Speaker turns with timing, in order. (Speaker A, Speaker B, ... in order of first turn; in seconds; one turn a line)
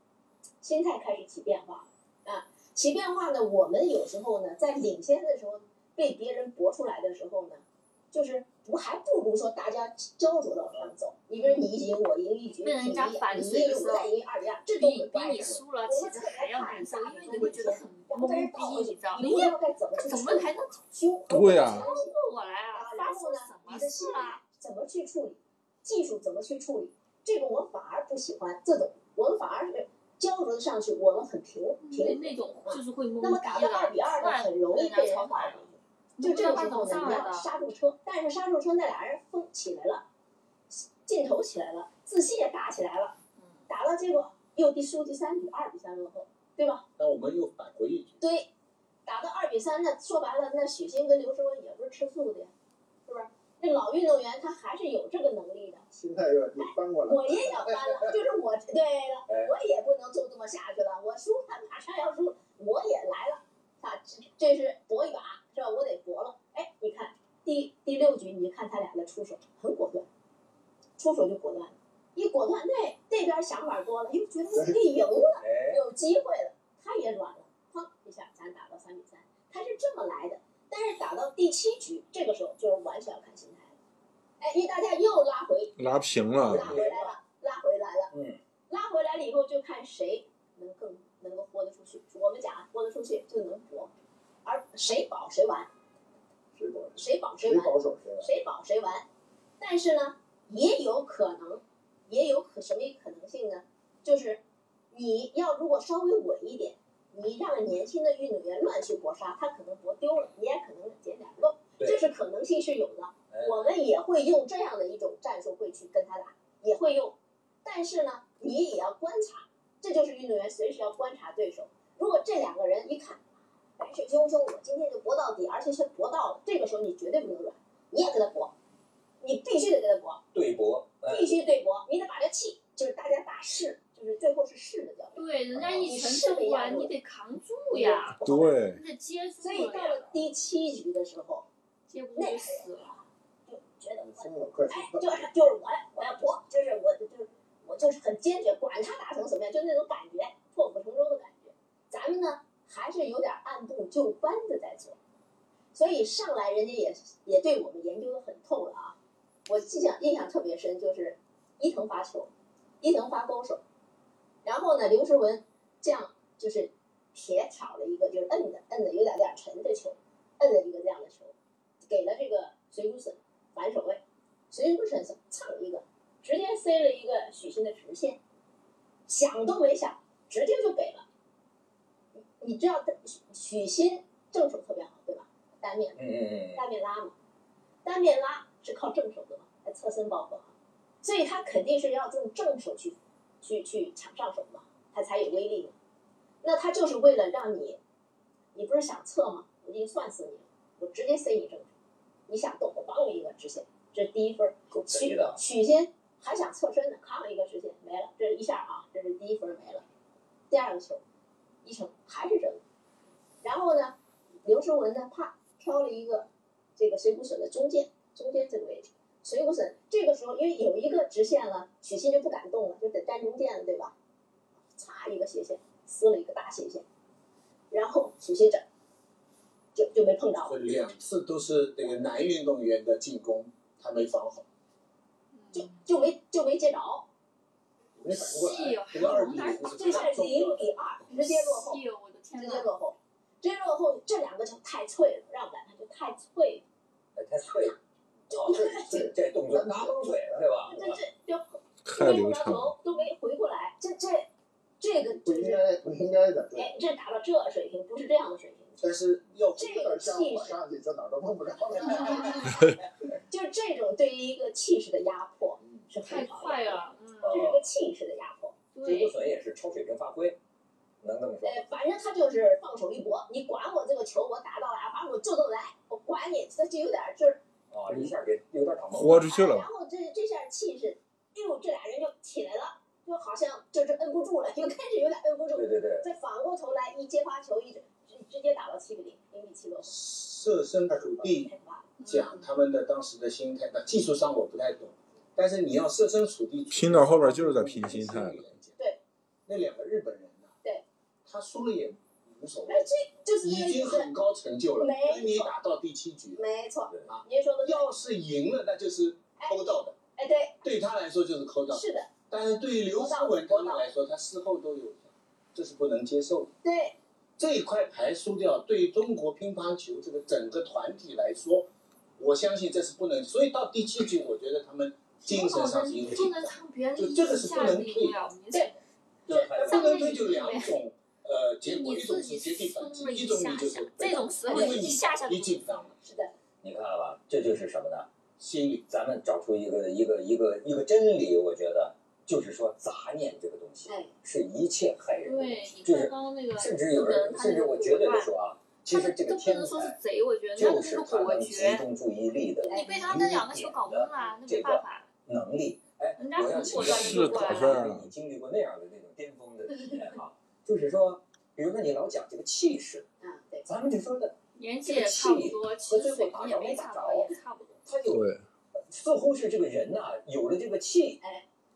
Speaker A: 0.6-22.1
Speaker B: 11.3-11.7
Speaker B: 12.5-14.1
Speaker B: 14.8-20.8
Speaker C: 21.3-21.9
Speaker B: 21.6-24.4
Speaker A: 22.7-40.0
Speaker B: 31.8-37.5
Speaker A: 40.7-43.1
Speaker B: 43.4-43.6
Speaker A: 43.7-46.8
Speaker D: 47.0-48.2
Speaker A: 48.2-48.5
Speaker A: 49.0-52.5
Speaker A: 53.0-55.9
Speaker E: 55.9-58.1
Speaker A: 56.6-70.1
Speaker F: 59.3-59.5
Speaker A: 71.0-83.7
Speaker F: 75.4-75.8
Speaker A: 84.4-85.7
Speaker C: 85.8-86.8
Speaker A: 86.4-88.1
Speaker F: 86.5-87.2
Speaker F: 88.1-88.4
Speaker A: 88.7-93.9
Speaker A: 94.4-95.7
Speaker E: 96.5-98.3
Speaker A: 97.0-99.0
Speaker A: 99.6-104.4
Speaker A: 104.9-123.2
Speaker F: 113.3-113.7
Speaker A: 123.8-128.5
Speaker A: 129.2-130.2
Speaker F: 130.3-131.3
Speaker A: 131.1-136.9
Speaker B: 135.1-140.2
Speaker F: 135.5-135.9
Speaker A: 137.7-138.6
Speaker C: 138.2-138.8
Speaker A: 139.4-141.4
Speaker B: 141.9-142.9
Speaker A: 142.2-155.0
Speaker E: 144.0-145.5
Speaker A: 155.7-158.9
Speaker A: 159.5-162.3
Speaker A: 162.8-163.6
Speaker A: 164.4-171.3
Speaker A: 171.9-178.2
Speaker A: 179.1-181.0
Speaker A: 182.4-187.1
Speaker F: 186.0-186.6
Speaker A: 187.8-195.7
Speaker A: 196.4-197.8
Speaker A: 198.5-201.7
Speaker A: 202.3-209.8
Speaker F: 204.7-205.4
Speaker A: 210.5-211.0
Speaker A: 211.6-212.6
Speaker A: 213.4-223.9
Speaker A: 224.7-226.8
Speaker A: 227.7-228.6
Speaker A: 229.7-230.6
Speaker D: 230.4-234.4
Speaker B: 235.3-235.9
Speaker A: 235.5-237.1
Speaker D: 238.0-240.7
Speaker B: 238.1-240.2
Speaker A: 239.7-241.8
Speaker B: 241.1-242.7
Speaker A: 242.4-246.6
Speaker F: 247.2-247.8
Speaker A: 248.3-249.1
Speaker F: 248.3-251.0
Speaker E: 248.3-250.8
Speaker A: 250.7-254.3
Speaker C: 251.8-252.8
Speaker A: 254.8-255.6
Speaker E: 255.2-256.7
Speaker A: 256.6-258.8
Speaker D: 258.8-259.9
Speaker A: 259.6-260.6
Speaker E: 259.6-262.5
Speaker F: 261.7-262.6
Speaker A: 261.9-262.6
Speaker A: 263.3-268.6
Speaker E: 265.6-265.9
Speaker B: 266.0-267.5
Speaker F: 267.2-267.7
Speaker B: 268.7-269.2
Speaker F: 268.8-270.4
Speaker F: 271.0-271.6
Speaker A: 271.4-277.4
Speaker F: 277.7-279.3
Speaker C: 278.9-279.7
Speaker A: 279.2-290.0
Speaker F: 285.5-286.1
Speaker D: 289.8-291.5
Speaker E: 290.9-291.3
Speaker A: 291.3-291.9
Speaker B: 292.0-292.5
Speaker D: 292.0-298.8
Speaker C: 296.7-298.5
Speaker D: 299.5-300.6
Speaker D: 301.2-302.9
Speaker A: 302.7-304.1
Speaker D: 303.4-306.4
Speaker A: 304.8-305.5
Speaker A: 306.3-307.9
Speaker D: 307.1-309.9
Speaker A: 309.4-310.6
Speaker D: 310.6-316.5
Speaker A: 311.7-312.1
Speaker A: 312.9-313.9
Speaker A: 316.6-317.0
Speaker D: 317.4-328.2
Speaker B: 325.2-328.8
Speaker D: 329.3-335.9
Speaker F: 329.3-330.2
Speaker B: 329.5-330.8
Speaker B: 331.6-335.7
Speaker A: 334.5-334.8
Speaker A: 336.0-336.3
Speaker F: 336.6-338.1
Speaker D: 338.4-338.9
Speaker F: 338.9-350.0
Speaker A: 343.9-344.1
Speaker B: 345.2-348.3
Speaker B: 348.9-351.8
Speaker F: 350.5-363.1
Speaker A: 352.6-353.0
Speaker B: 352.7-355.1
Speaker B: 356.2-357.8
Speaker C: 356.7-358.1
Speaker A: 363.2-363.7
Speaker F: 363.6-368.3
Speaker B: 364.6-367.8
Speaker C: 368.1-368.4
Speaker F: 368.9-371.2
Speaker A: 371.2-371.4